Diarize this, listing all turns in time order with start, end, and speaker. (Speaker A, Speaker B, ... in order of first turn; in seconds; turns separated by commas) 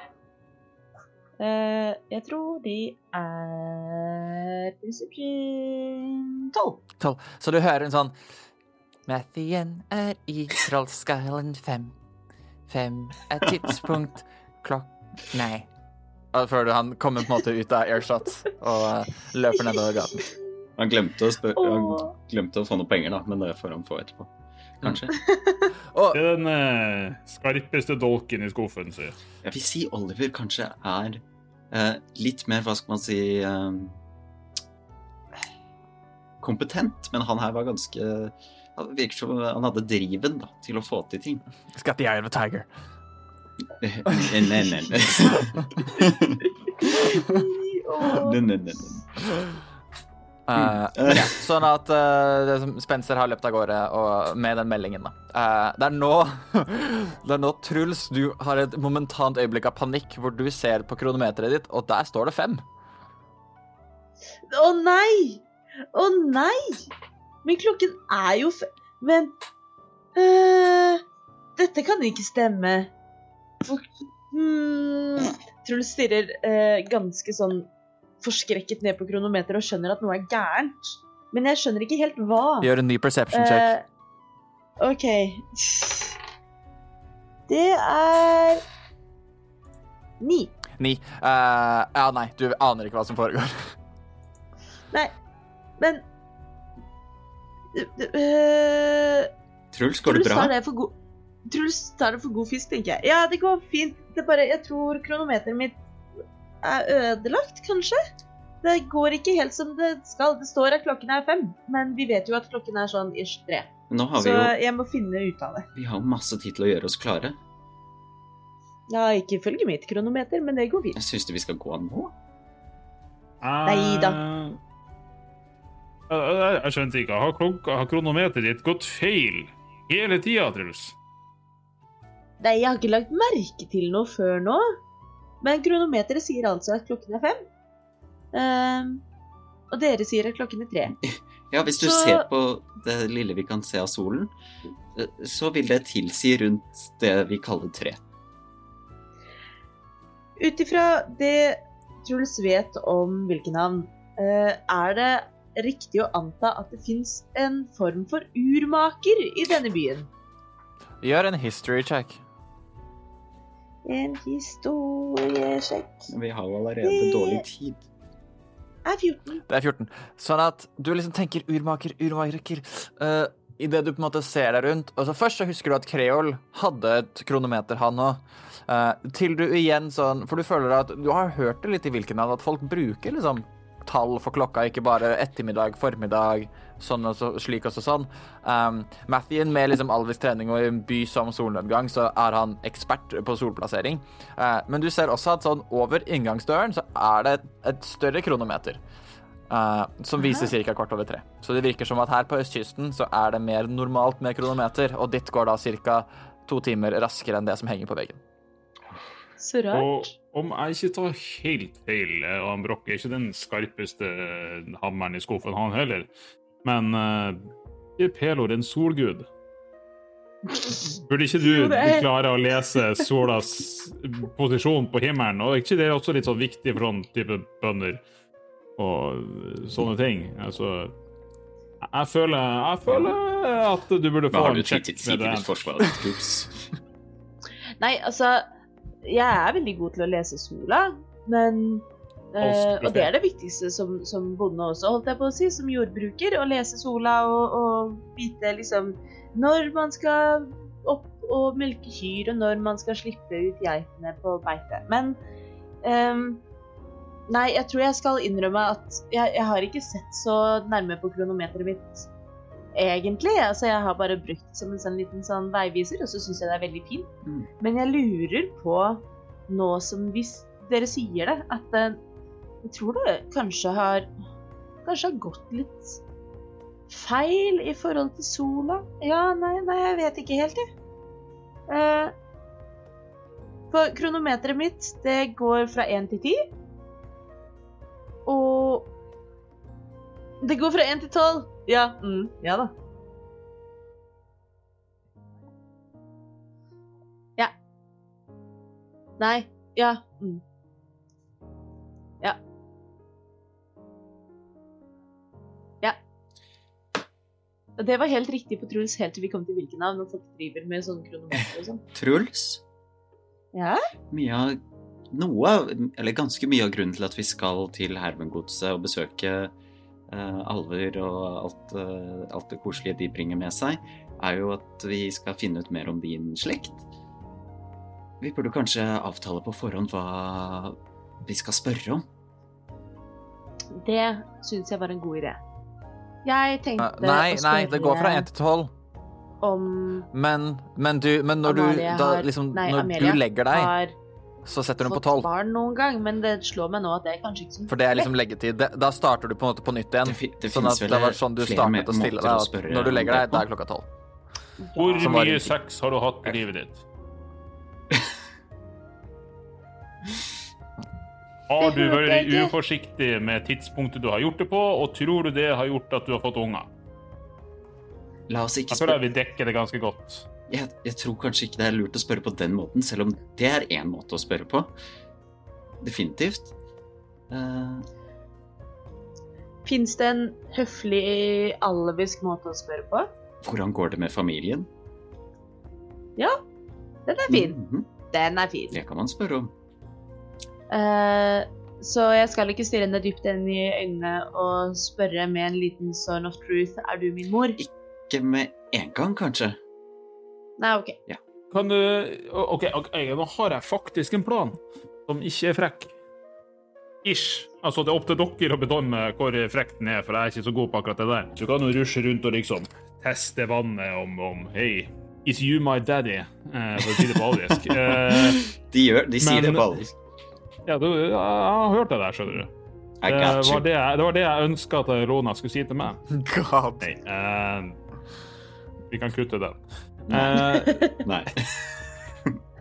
Speaker A: 1.4-6.8, Speaker B: 7.0-8.2, Speaker B: 9.1-11.9, Speaker B: 12.7-15.7, Speaker B: 16.3-20.2, Speaker C: 20.8-24.3, Speaker A: 21.6-22.1, Speaker C: 24.8-25.1, Speaker A: 25.2-25.7, Speaker B: 25.9-26.2, Speaker D: 26.1-29.1, Speaker C: 29.4-34.0, Speaker C: 36.4-41.4, Speaker B: 41.7-42.7, Speaker C: 43.8-46.4, Speaker A: 46.8-48.4, Speaker C: 48.1-49.0, Speaker B: 50.5-62.6, Speaker C: 50.6-51.4, Speaker A: 64.5-66.9, Speaker A: 67.4-69.3, Speaker A: 70.2-71.0, Speaker A: 71.6-72.9, Speaker A: 73.6-77.7, Speaker A: 78.2-82.7, Speaker B: 82.6-83.7, Speaker A: 83.3-83.8, Speaker A: 84.8-86.2, Speaker A: 87.5-88.6, Speaker A: 90.2-90.5, Speaker B: 90.8-93.7, Speaker A: 95.8-96.0, Speaker A: 97.7-99.3, Speaker C: 99.7-100.5, Speaker A: 100.0-100.9, Speaker A: 101.5-105.8, Speaker A: 106.6-108.0, Speaker A: 108.6-115.7, Speaker C: 113.9-114.5, Speaker C: 115.7-117.4, Speaker A: 118.9-121.0, Speaker C: 121.0-122.1, Speaker D: 123.4-124.6, Speaker A: 123.7-124.2, Speaker D: 126.1-130.9, Speaker A: 132.4-134.7, Speaker A: 135.4-137.4, Speaker A: 138.3-139.0, Speaker A: 139.7-140.9, Speaker C: 141.1-144.3, Speaker A: 141.7-142.2, Speaker C: 144.9-148.0, Speaker A: 150.4-160.1, Speaker B: 161.0-162.2, Speaker A: 163.8-166.1, Speaker C: 166.1-167.8, Speaker A: 166.8-167.4, Speaker A: 168.8-169.4, Speaker B: 169.5-198.8, Speaker B: 199.5-208.2, Speaker A: 200.2-200.5, Speaker A: 209.4-210.1, Speaker D: 209.7-216.1, Speaker D: 216.6-219.3, Speaker D: 221.0-228.0, Speaker A: 221.4-222.1, Speaker D: 228.8-230.9, Speaker D: 231.8-235.6, Speaker C: 234.3-236.6, Speaker A: 237.8-238.4, Speaker A: 239.0-255.2, Speaker D: 242.4-243.1, Speaker A: 255.8-256.4, Speaker A: 257.3-262.1, Speaker A: 262.7-272.0, Speaker A: 272.6-274.1, Speaker A: 274.8-276.0, Speaker A: 276.9-280.6, Speaker A: 281.7-282.1, Speaker A: 283.7-286.4, Speaker A: 288.2-288.9, Speaker A: 290.4-292.7, Speaker A: 299.2-300.4, Speaker A: 307.8-311.8, Speaker C: 311.9-312.6, Speaker A: 313.5-313.8, Speaker C: 314.1-314.6, Speaker C: 315.1-319.5, Speaker C: 320.1-326.8, Speaker C: 328.2-332.0, Speaker A: 333.7-335.4, Speaker A: 336.2-338.3, Speaker B: 336.8-338.7, Speaker A: 339.4-340.1, Speaker B: 340.1-343.7, Speaker A: 341.4-343.9, Speaker B: 344.4-345.3, Speaker A: 344.8-348.1, Speaker B: 347.7-353.9, Speaker C: 350.0-353.4, Speaker A: 354.6-355.1, Speaker D: 354.8-356.8, Speaker B: 355.0-355.5, Speaker D: 361.5-366.7, Speaker A: 361.6-362.5, Speaker C: 368.3-369.0, Speaker D: 368.7-370.2, Speaker C: 370.5-374.7, Speaker C: 375.8-376.5, Speaker C: 377.3-377.9, Speaker A: 379.6-383.1, Speaker C: 383.4-384.7, Speaker A: 387.1-387.6, Speaker C: 387.3-387.9, Speaker A: 388.1-388.8, Speaker C: 388.7-389.5, Speaker A: 390.7-397.6, Speaker C: 397.6-399.6, Speaker A: 400.6-401.0, Speaker D: 401.5-405.9, Speaker D: 407.0-418.4, Speaker C: 417.5-419.9, Speaker D: 419.2-419.7, Speaker D: 420.7-422.5, Speaker C: 423.0-423.6, Speaker D: 423.1-426.0, Speaker B: 426.1-426.9, Speaker D: 426.8-427.8, Speaker D: 428.9-429.6, Speaker C: 430.1-431.7, Speaker D: 430.1-431.0, Speaker A: 430.6-430.9